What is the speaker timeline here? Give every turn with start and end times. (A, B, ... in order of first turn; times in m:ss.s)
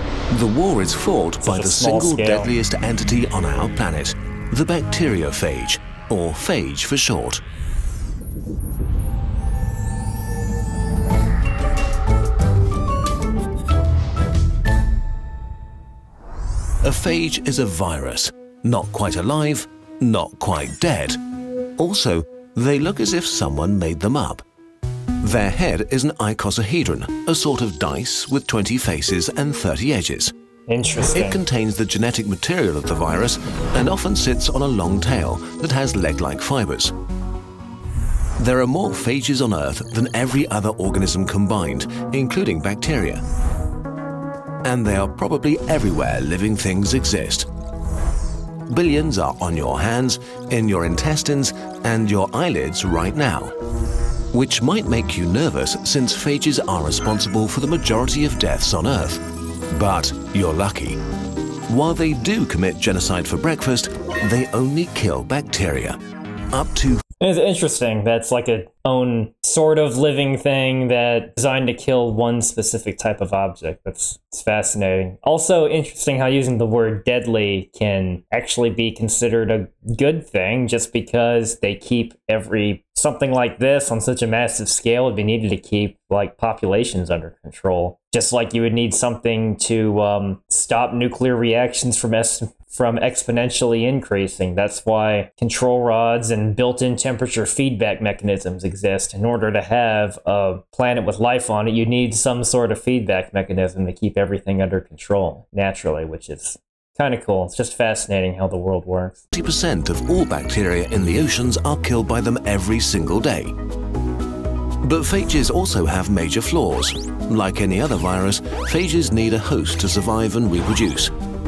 0:00.3-0:07.4 A
0:01.4-0:02.5 B
0:16.8-0:21.2 A
0:21.8-0:24.4 A
0:25.2-0:30.3 A
0:30.7-0:31.4 B
0:31.1-0:37.0 A
0:38.4-0:43.2 A
0:44.6-0:47.5 A
0:48.7-0:53.5 A
0:54.3-1:01.0 A
1:01.7-1:06.0 A
1:06.5-1:07.0 A
1:07.2-1:49.2 B
1:49.3-1:53.5 A
1:54.8-2:01.1 A